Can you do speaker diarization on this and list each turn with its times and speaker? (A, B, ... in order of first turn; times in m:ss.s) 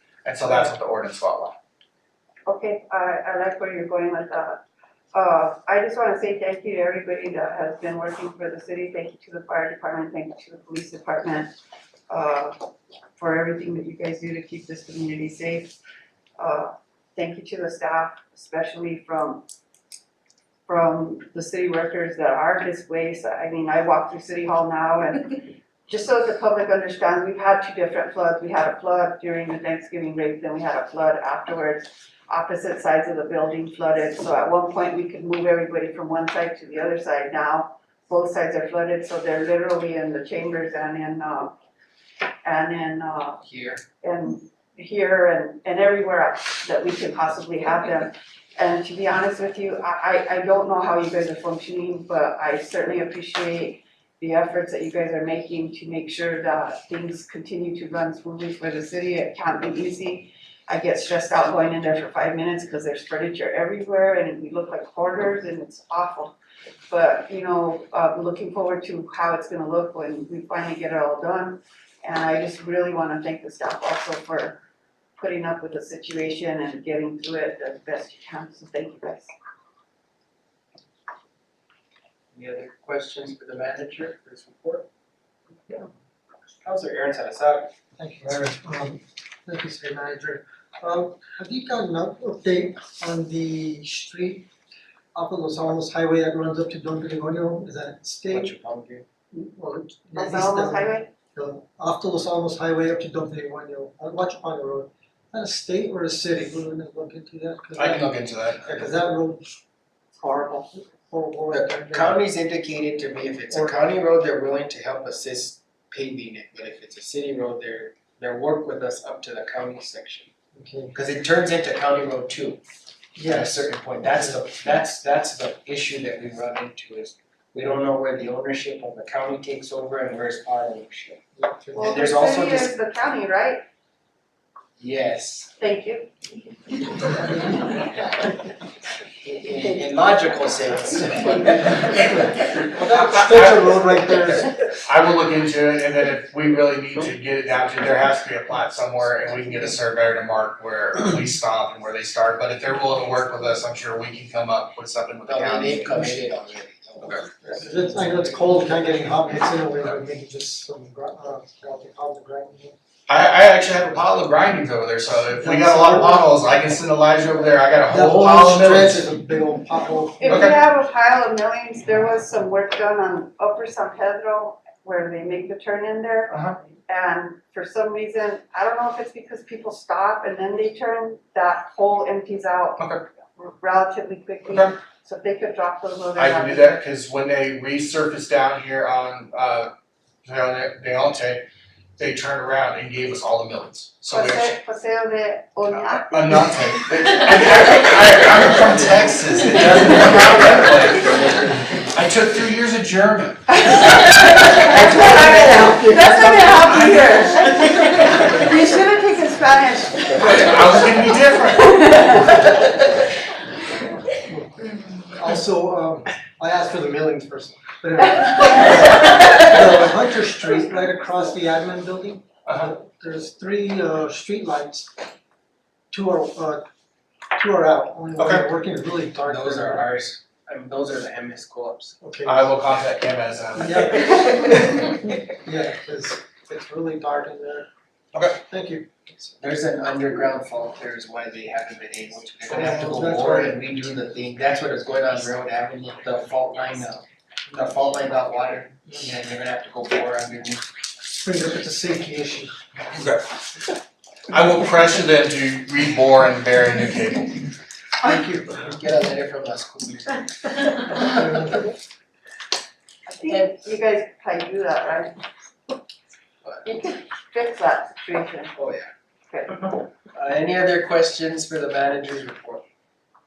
0:00.2-0:01.5 A
0:02.4-0:04.6 B
0:05.1-0:11.5 B
0:12.1-0:12.5 B
0:13.2-0:15.7 B
0:16.4-0:19.4 B
0:20.7-0:41.5 B
0:42.4-0:43.4 B
0:43.4-0:43.8 C
0:44.0-1:06.3 B
1:06.9-1:14.6 B
1:15.2-1:19.3 B
1:22.3-1:24.9 C
1:26.6-1:27.7 C
1:28.0-1:34.5 D
1:35.1-1:38.5 D
1:38.3-1:39.0 C
1:39.5-1:48.1 D
1:40.1-1:41.1 B
1:47.8-1:48.8 A
1:48.6-1:49.6 D
1:50.2-1:52.2 D
1:51.5-2:00.3 C
1:53.5-1:53.8 D
2:00.5-2:00.9 D
2:00.9-2:02.6 C
2:03.2-2:03.7 D
2:03.2-2:11.2 C
2:11.4-2:12.0 D
2:11.8-2:13.6 B
2:11.8-2:12.7 C
2:14.8-2:15.5 C
2:15.6-2:16.1 B
2:17.2-2:17.7 D
2:19.2-2:22.1 C
2:22.0-2:24.5 D
2:22.5-2:24.0 A
2:24.7-2:36.2 A
2:35.3-2:37.5 C
2:37.0-2:37.2 A
2:37.4-2:42.8 D
2:43.1-2:49.0 A
2:45.4-2:46.3 D
2:47.9-2:50.5 D
2:50.2-3:02.8 B
2:50.3-2:50.5 A
2:56.3-2:56.6 A
3:02.8-3:03.0 A
3:03.4-3:06.8 B
3:04.5-3:04.7 A
3:06.2-3:09.7 A
3:10.2-3:11.4 A
3:12.0-3:14.6 A
3:14.1-3:16.4 B
3:16.0-3:21.2 A
3:21.1-3:21.4 C
3:21.9-3:23.5 A
3:23.5-3:32.7 B
3:24.8-3:25.7 C
3:26.7-3:27.0 A
3:30.2-3:31.8 A
3:34.2-3:44.9 D
3:45.9-3:46.6 D
3:47.4-3:49.9 D
3:48.2-3:48.4 A
3:49.2-3:51.9 C
3:52.0-3:52.5 D
3:52.2-3:54.4 A
3:53.6-3:57.7 D
3:58.1-3:58.4 A
3:58.4-3:59.3 D
3:59.4-4:10.6 C
4:02.5-4:03.6 D
4:11.1-4:12.5 D
4:12.9-4:13.3 A
4:14.3-4:17.4 A
4:18.0-4:18.7 D
4:18.5-4:21.6 C
4:21.0-4:21.7 D
4:23.1-4:25.1 B
4:26.6-4:28.5 B
4:28.6-4:28.9 C
4:29.3-4:29.6 B
4:29.7-4:32.6 C